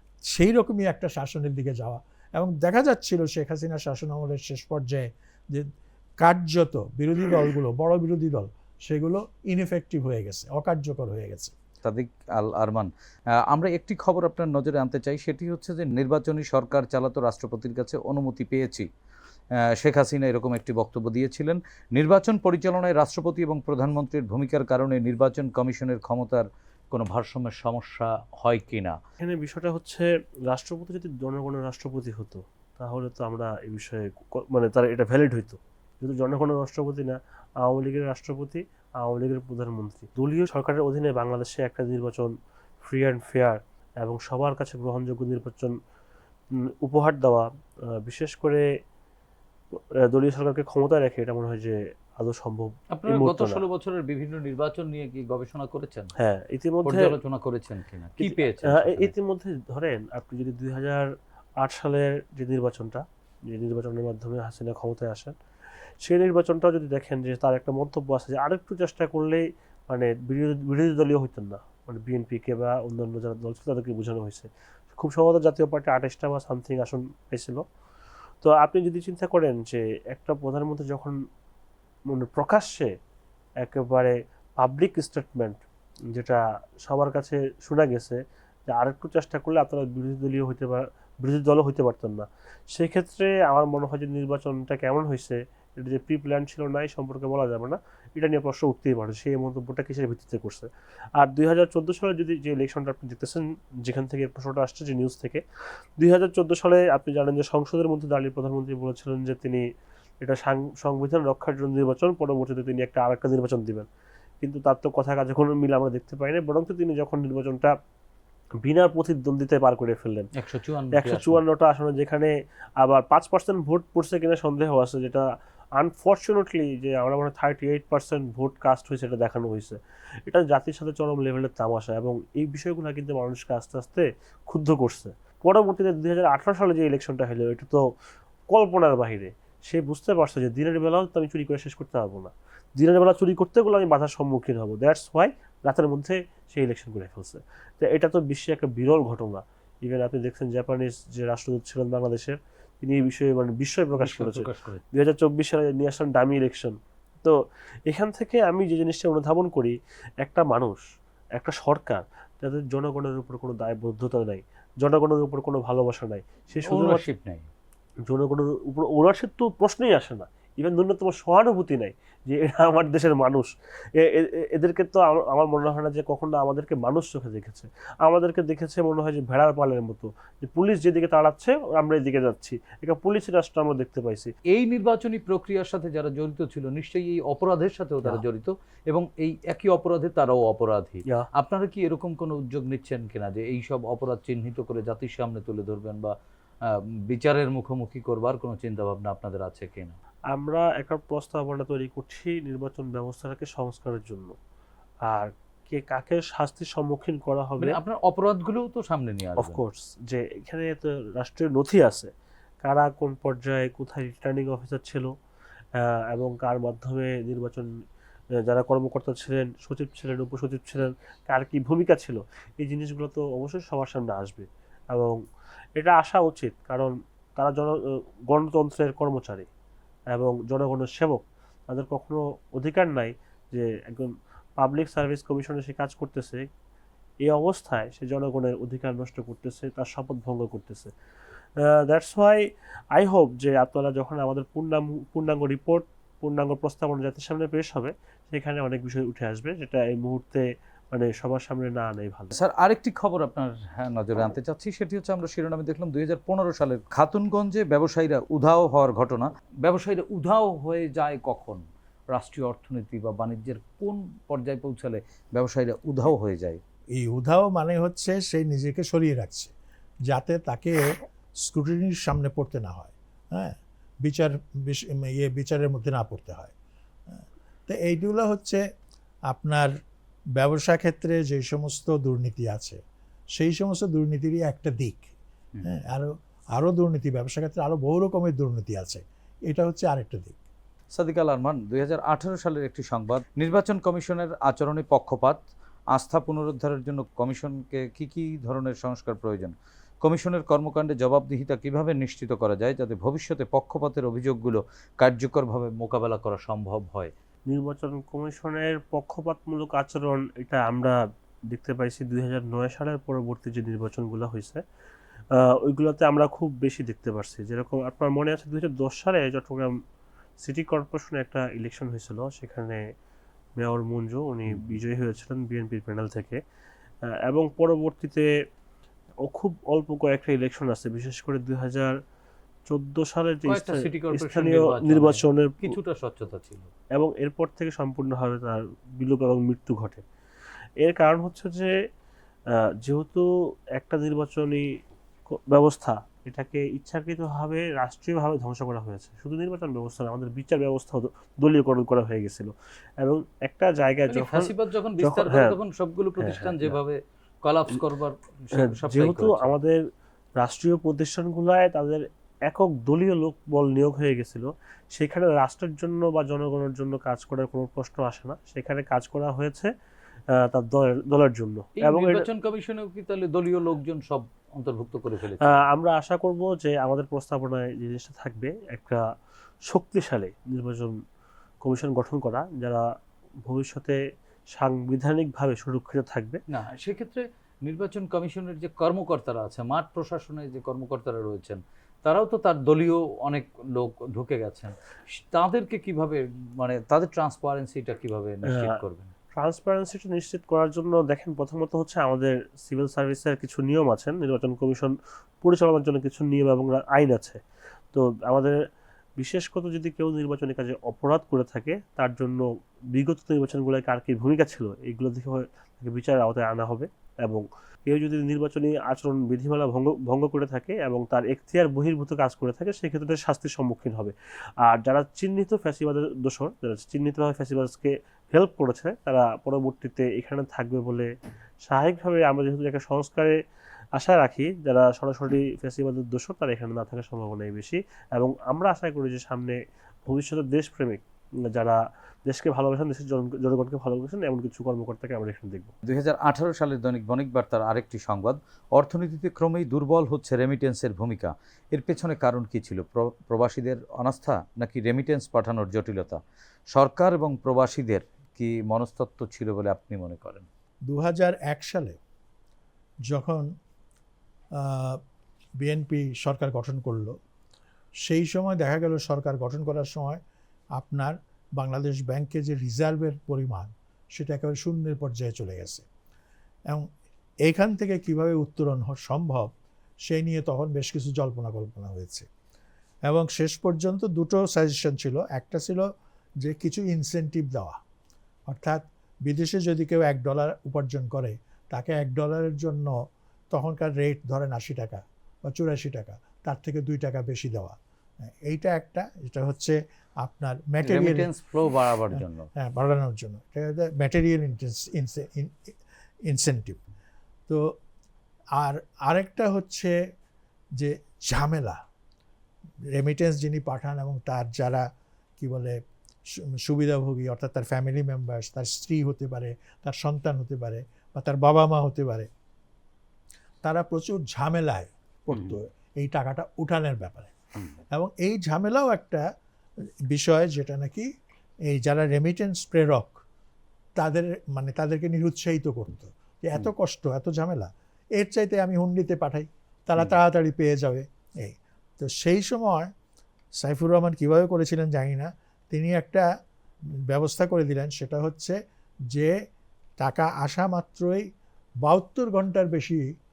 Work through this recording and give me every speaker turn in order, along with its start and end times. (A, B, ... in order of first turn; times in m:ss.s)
0:00.3-0:11.5 A
0:11.8-0:12.9 B
0:13.5-0:18.9 B
0:19.6-0:29.0 B
0:29.2-0:45.8 C
0:46.6-0:48.7 C
0:49.7-0:53.6 C
0:52.9-0:56.1 B
0:56.2-0:57.2 C
0:56.8-0:59.1 B
0:58.2-1:05.4 C
1:06.0-1:17.6 C
1:18.4-1:21.2 C
1:22.1-1:22.9 C
1:23.6-1:25.6 C
1:26.1-1:45.4 C
1:46.0-1:49.6 C
1:50.2-1:53.9 C
1:54.4-1:57.7 C
1:58.6-2:00.3 C
2:00.4-2:01.4 B
2:00.9-2:05.3 C
2:05.8-2:17.8 C
2:18.5-2:40.8 C
2:34.0-2:34.8 B
2:41.4-2:47.0 C
2:46.7-2:47.5 B
2:48.1-3:04.3 C
3:04.5-3:16.1 B
3:16.7-3:20.0 B
3:20.3-3:24.4 C
3:25.1-3:27.8 C
3:27.6-3:29.6 B
3:29.4-3:32.1 C
3:32.6-3:35.1 C
3:35.8-3:37.7 C
3:38.4-3:45.2 C
3:45.8-3:49.5 C
3:50.1-3:56.5 C
3:57.2-4:00.9 C
4:01.6-4:12.3 C
4:12.3-4:21.6 B
4:22.1-4:26.6 B
4:27.0-4:29.5 A
4:30.1-4:36.5 A
4:37.1-4:38.6 A
4:39.3-4:39.7 A
4:40.4-4:42.8 A
4:43.4-4:45.1 A
4:45.6-4:50.4 A
4:50.9-4:55.4 B
4:55.9-5:07.1 B
5:07.5-5:11.0 C
5:11.5-5:14.6 C
5:15.3-5:19.8 C
5:20.4-5:22.8 C
5:23.6-5:26.4 C
5:24.5-5:24.8 B
5:27.1-5:28.3 C
5:29.2-5:32.0 C
5:32.7-5:35.8 C
5:33.5-5:36.7 B
5:37.0-5:40.0 C
5:40.8-5:41.7 C
5:42.8-5:44.7 C
5:45.3-5:55.6 C
5:54.1-5:59.5 B
5:56.2-5:56.8 C
5:58.6-5:59.8 C
6:00.4-6:09.7 C
6:10.3-6:12.3 C
6:11.8-6:15.6 B
6:15.5-6:19.1 C
6:19.7-6:21.0 C
6:21.6-6:22.9 C
6:23.5-6:24.0 C
6:24.5-6:26.4 C
6:26.5-6:39.1 B
6:39.4-6:47.4 C
6:47.9-6:48.6 C
6:49.2-7:11.1 C
7:11.6-7:13.4 C
7:14.0-7:25.7 C
7:25.9-7:36.2 B
7:36.7-7:40.5 B
7:40.9-7:42.0 A
7:43.1-7:43.5 A
7:44.6-7:45.0 A
7:45.6-7:47.2 A
7:48.0-7:50.2 A
7:50.8-7:55.9 A
7:57.5-7:59.5 A
8:00.1-8:02.3 A
8:03.1-8:05.9 A
8:06.4-8:07.8 A
8:08.5-8:13.0 A
8:13.5-8:21.3 A
8:20.8-8:22.5 B
8:22.1-8:25.7 A
8:26.3-8:26.8 A
8:28.6-8:30.0 A
8:30.8-8:31.8 A
8:33.0-8:34.8 A
8:35.4-8:35.8 A
8:36.4-8:42.3 A
8:43.6-8:47.3 A
8:47.9-8:49.2 A
8:50.1-8:51.1 A
8:51.7-8:53.2 A
8:54.0-9:02.9 A
9:03.6-9:06.3 A
9:07.1-9:08.6 A
9:10.0-9:11.3 A
9:11.8-9:13.0 A